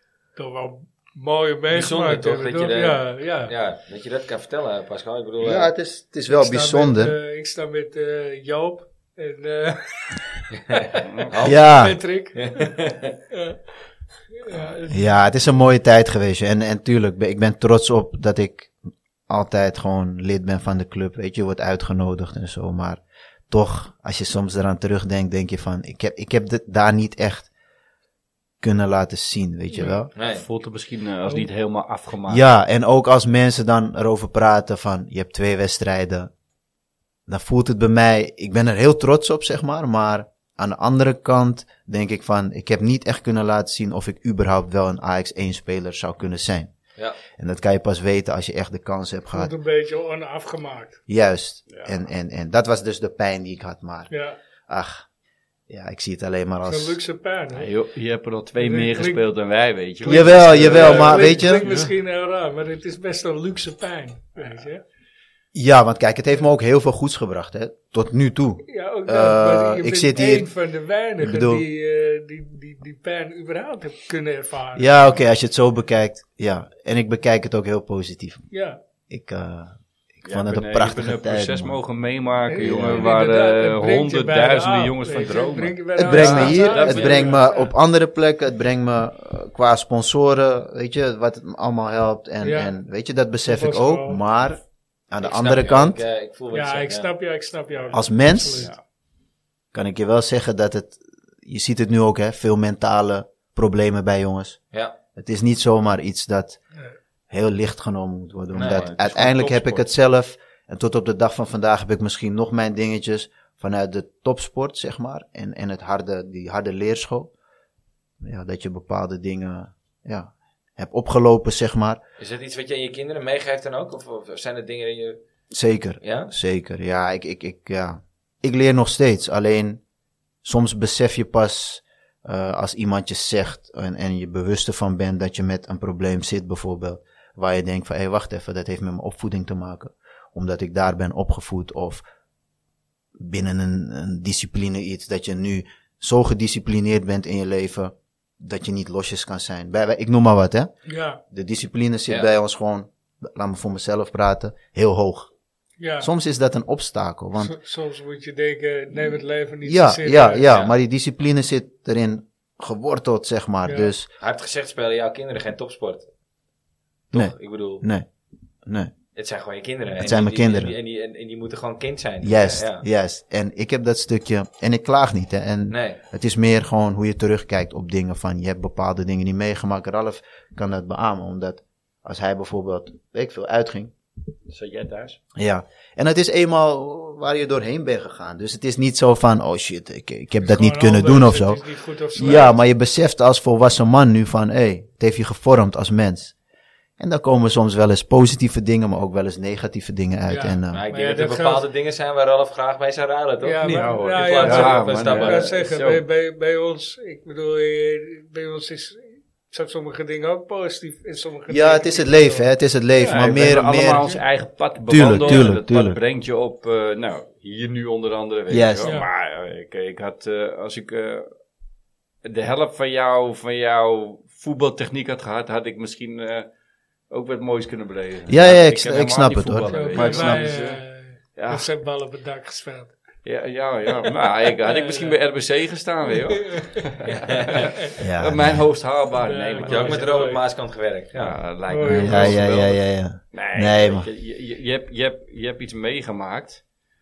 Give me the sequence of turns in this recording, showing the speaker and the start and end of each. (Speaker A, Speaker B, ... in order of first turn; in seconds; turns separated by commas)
Speaker A: 0.3-3.5, Speaker B: 1.7-5.7, Speaker C: 5.4-7.2, Speaker A: 6.3-10.1, Speaker B: 10.5-11.6, Speaker A: 10.7-13.6, Speaker D: 11.0-11.3, Speaker C: 11.4-12.0, Speaker B: 12.3-13.2, Speaker A: 14.3-15.2, Speaker C: 14.9-18.7, Speaker C: 19.3-27.5, Speaker C: 28.6-30.1, Speaker A: 29.7-30.0, Speaker B: 30.1-30.4, Speaker D: 30.3-32.4, Speaker C: 32.3-36.3, Speaker C: 37.3-46.7, Speaker C: 47.4-49.5, Speaker A: 49.3-51.0, Speaker C: 51.1-54.1, Speaker D: 51.7-52.0, Speaker A: 54.1-54.4, Speaker C: 54.7-55.0, Speaker C: 55.7-57.0, Speaker A: 56.6-57.7, Speaker D: 57.5-61.9, Speaker A: 58.6-59.2, Speaker C: 60.0-61.8, Speaker A: 60.0-64.8, Speaker C: 65.5-70.5, Speaker A: 68.7-75.1, Speaker C: 71.2-71.6, Speaker C: 74.8-78.4, Speaker A: 78.5-78.8, Speaker C: 79.1-81.8, Speaker D: 80.2-87.4, Speaker A: 82.5-87.7, Speaker C: 82.6-83.1, Speaker C: 86.0-96.0, Speaker A: 92.4-92.7, Speaker A: 93.5-94.2, Speaker B: 95.2-97.1, Speaker A: 96.5-98.7, Speaker C: 97.9-98.7, Speaker C: 99.7-104.6, Speaker B: 104.7-105.0, Speaker C: 105.2-106.6, Speaker C: 107.3-117.3, Speaker B: 108.5-108.9, Speaker D: 108.5-109.8, Speaker C: 118.2-122.0, Speaker B: 122.2-125.2, Speaker C: 125.5-129.8, Speaker B: 126.0-126.3, Speaker C: 130.4-142.0, Speaker C: 143.2-150.7, Speaker A: 150.8-151.2, Speaker C: 151.3-155.3, Speaker A: 155.8-156.1, Speaker C: 156.0-157.6, Speaker A: 157.4-160.5, Speaker C: 159.6-164.1, Speaker B: 160.5-160.7, Speaker A: 163.6-163.9, Speaker B: 164.2-166.1, Speaker B: 167.1-167.8, Speaker C: 167.1-168.1, Speaker C: 168.7-168.9, Speaker B: 169.2-172.8, Speaker C: 170.0-170.7, Speaker C: 172.2-183.9, Speaker B: 175.7-176.0, Speaker D: 184.5-185.2, Speaker C: 185.3-196.3, Speaker A: 190.4-192.6, Speaker C: 197.0-200.8, Speaker A: 200.3-201.7, Speaker B: 200.7-205.5, Speaker A: 203.4-214.2, Speaker D: 203.6-206.0, Speaker C: 211.5-214.0, Speaker D: 213.0-221.3, Speaker C: 214.9-216.0, Speaker A: 215.1-215.5, Speaker C: 218.5-218.9, Speaker D: 222.2-226.5, Speaker D: 227.1-230.8, Speaker C: 228.3-230.6, Speaker A: 229.7-232.9, Speaker D: 231.3-231.7, Speaker D: 233.2-240.3, Speaker A: 234.6-235.2, Speaker A: 236.0-237.0, Speaker B: 237.1-237.7, Speaker C: 238.0-238.7, Speaker A: 239.2-240.4, Speaker B: 239.6-241.4, Speaker D: 241.2-246.6, Speaker A: 241.7-242.4, Speaker C: 241.8-244.1